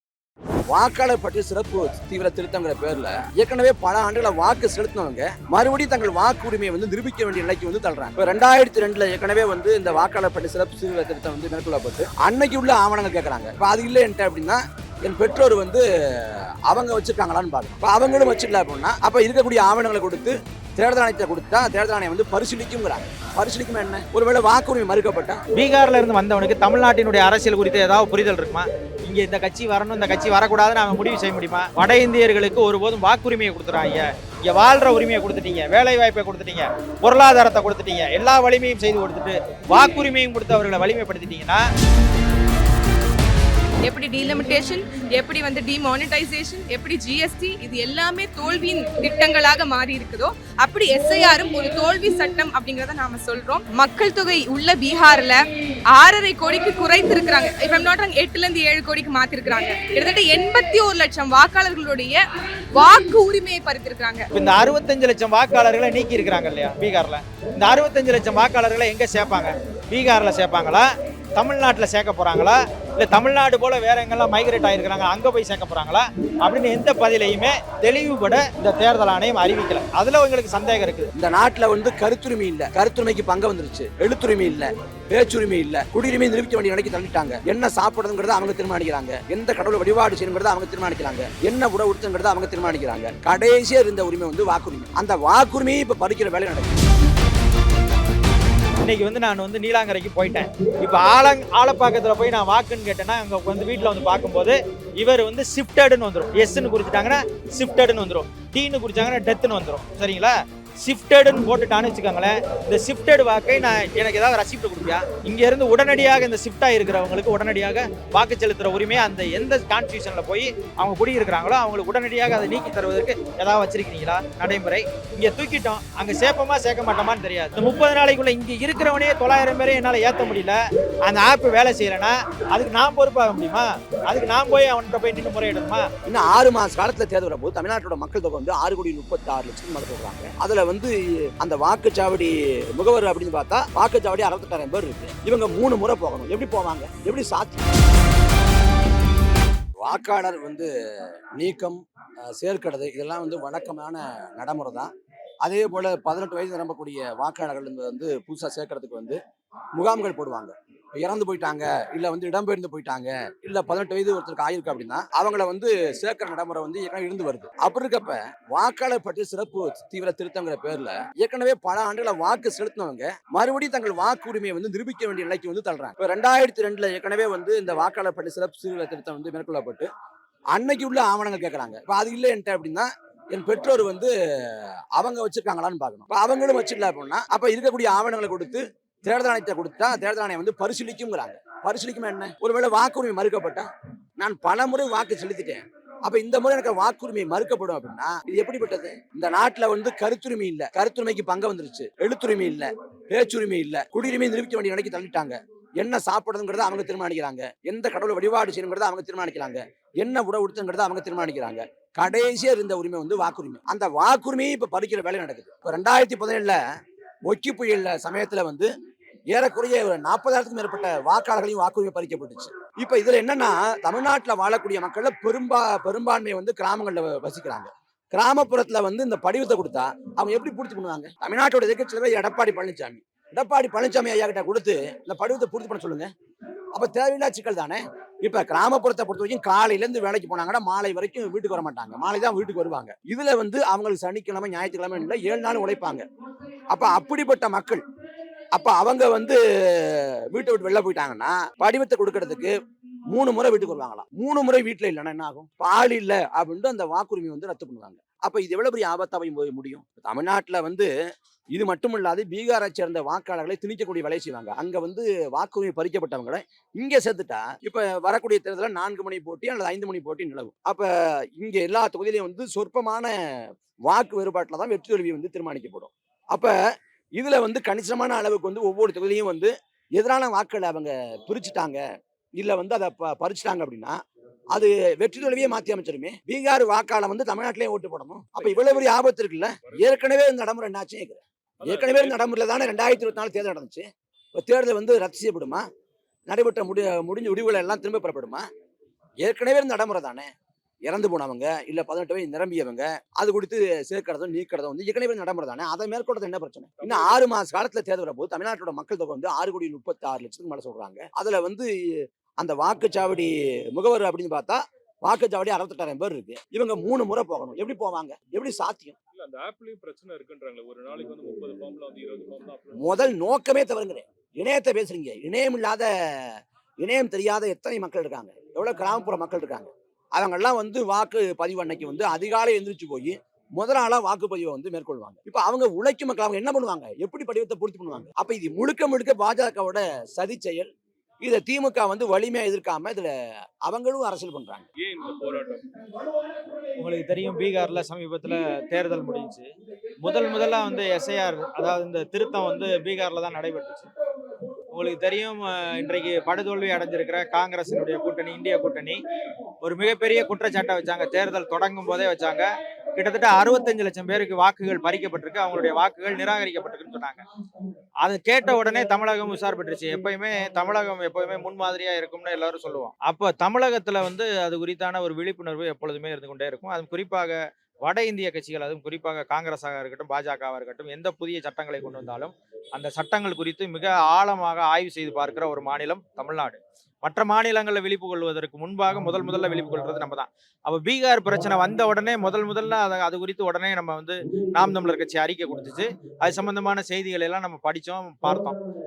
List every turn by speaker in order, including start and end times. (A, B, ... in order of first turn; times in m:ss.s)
0:00.7-0:25.4 A
0:25.5-0:41.6 B
0:43.8-0:55.4 C
0:55.9-1:02.2 C
1:02.7-1:04.3 C
1:04.3-1:21.1 B
1:21.2-1:36.7 A
1:38.8-2:15.8 B
2:16.0-2:27.6 A
2:29.8-2:30.7 A
2:31.4-2:34.9 A
2:35.4-2:39.2 A
2:39.7-2:59.9 A
3:00.5-3:36.6 A
3:37.2-3:38.7 A
3:39.3-3:56.1 A
3:56.7-4:06.0 A
4:06.7-4:07.8 A
4:08.5-4:12.5 A
4:13.1-4:20.9 A
4:21.5-4:36.5 A
4:37.2-4:41.8 A
4:42.4-4:44.0 A
4:44.5-4:53.8 A
4:48.4-4:49.0 D
4:49.6-4:50.1 D
4:51.6-4:52.2 D
4:54.3-4:55.6 A
4:56.3-4:58.4 A
4:59.2-5:00.3 A
5:00.9-5:11.7 A
5:06.8-5:07.2 D
5:12.4-5:18.9 A
5:19.1-5:23.0 D
5:22.8-5:40.7 A
5:41.2-5:43.1 A
5:43.6-5:44.6 A
5:44.7-5:45.6 D
5:46.8-5:49.5 B
5:50.0-5:53.9 B
5:54.7-5:59.0 B
5:59.6-6:07.2 B
6:08.0-6:38.6 B